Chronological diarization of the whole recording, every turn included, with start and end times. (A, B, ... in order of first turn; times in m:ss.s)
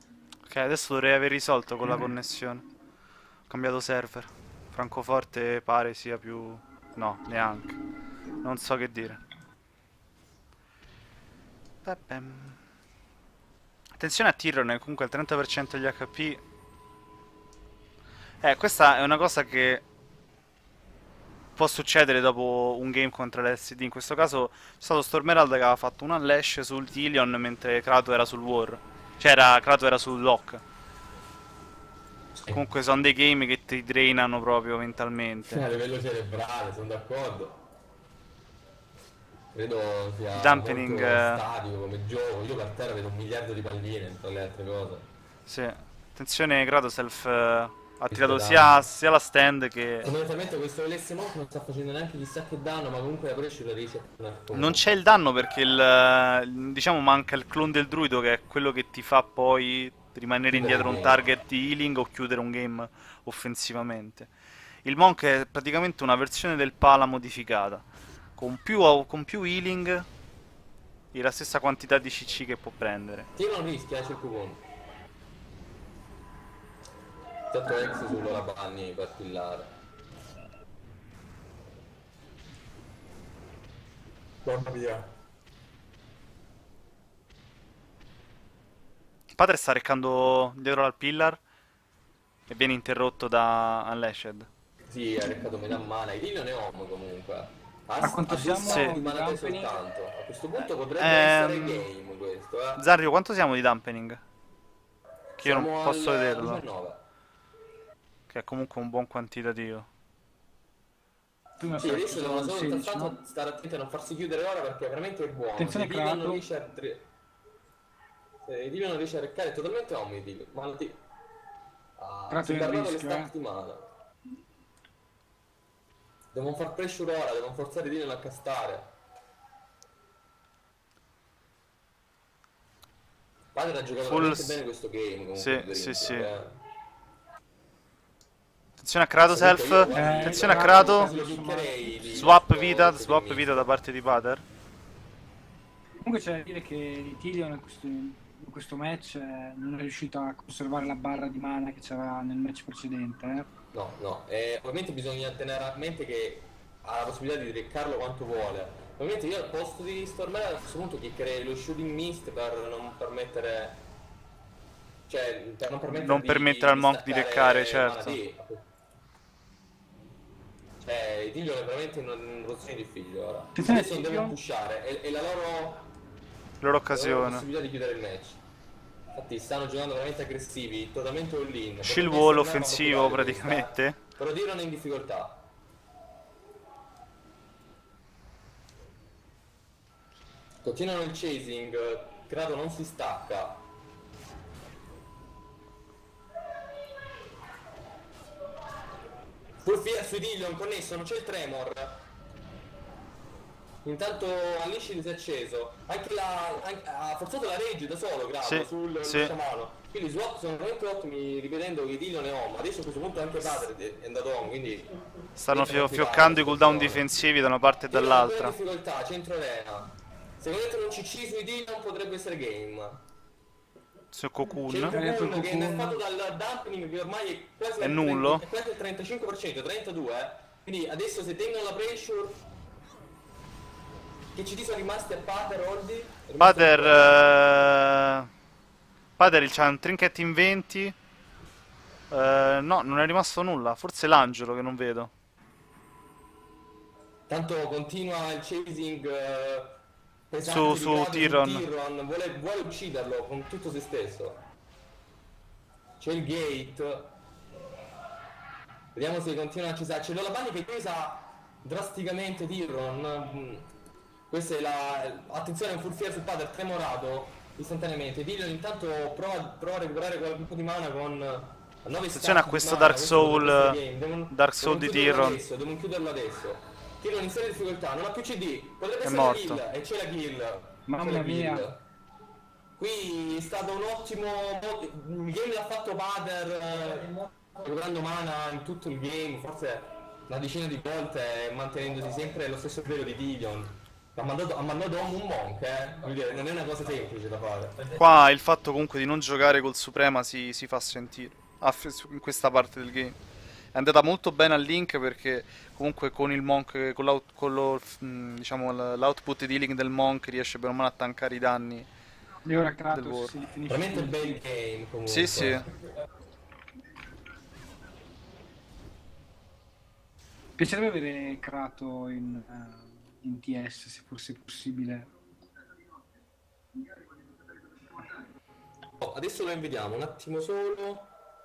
0:00.5-0:02.6 A
0:03.5-0:07.8 A
0:08.4-0:09.2 A
0:11.8-0:12.6 A
0:14.0-0:16.4 A
0:18.4-0:19.8 A
0:21.6-0:30.6 A
0:32.3-0:32.6 B
0:32.5-0:35.6 A
0:35.5-0:37.6 B
0:39.5-0:45.1 B
0:40.3-0:41.4 A
0:45.5-0:50.1 A
0:48.1-0:48.8 B
0:50.0-0:54.9 B
0:54.5-1:04.3 A
1:00.5-1:01.3 B
1:04.8-1:10.1 A
1:11.1-1:13.3 A
1:13.3-1:14.6 B
1:17.5-1:19.8 B
1:24.4-1:25.1 B
1:29.4-1:31.4 A
1:32.5-1:34.5 A
1:34.9-1:42.9 B
1:38.0-1:39.8 C
1:38.6-1:39.0 A
1:40.6-1:41.9 A
1:42.7-1:44.2 A
1:45.4-1:46.6 A
1:45.4-1:47.0 B
1:48.3-1:49.9 A
1:51.6-1:53.2 C
1:51.8-1:57.1 B
1:55.6-1:56.4 C
1:58.4-2:01.0 B
2:02.0-2:03.9 B
2:02.3-2:03.3 C
2:06.3-2:08.9 B
2:13.5-2:16.6 B
2:14.0-2:14.6 A
2:15.4-2:16.3 A
2:18.8-2:21.1 A
2:19.2-2:23.7 B
2:19.9-2:22.3 C
2:22.1-2:24.4 A
2:26.0-2:33.5 C
2:33.7-2:43.8 B
2:45.1-2:48.7 B
2:46.0-2:48.2 A
2:50.8-2:55.8 B
2:53.5-2:54.4 C
2:56.6-2:57.4 A
2:56.9-2:58.4 B
2:59.1-3:05.4 B
3:01.8-3:04.0 A
3:10.6-3:13.6 B
3:19.6-3:22.0 B
3:23.8-3:34.9 B
3:28.4-3:29.3 A
3:35.4-3:38.6 A
3:35.5-3:37.2 B
3:37.9-3:43.0 B
3:44.1-3:45.0 A
3:44.7-3:52.4 B
3:44.8-3:46.0 C
3:47.8-3:48.4 A
3:54.3-3:57.3 B
3:56.4-3:58.3 A
3:59.2-4:01.0 A
4:02.1-4:05.1 A
4:07.3-4:14.4 B
4:10.4-4:11.6 A
4:16.0-4:17.1 B
4:18.9-4:23.7 B
4:24.3-4:41.8 B
4:32.1-4:35.4 A
4:39.0-4:39.6 A
4:40.9-4:41.7 C
4:42.8-4:57.9 B
4:57.9-5:03.2 A
5:03.7-5:11.9 A
5:12.4-5:14.4 C
5:12.9-5:13.3 A
5:13.7-5:15.7 B
5:15.0-5:15.6 A
5:20.6-5:25.1 C
5:29.0-5:31.1 B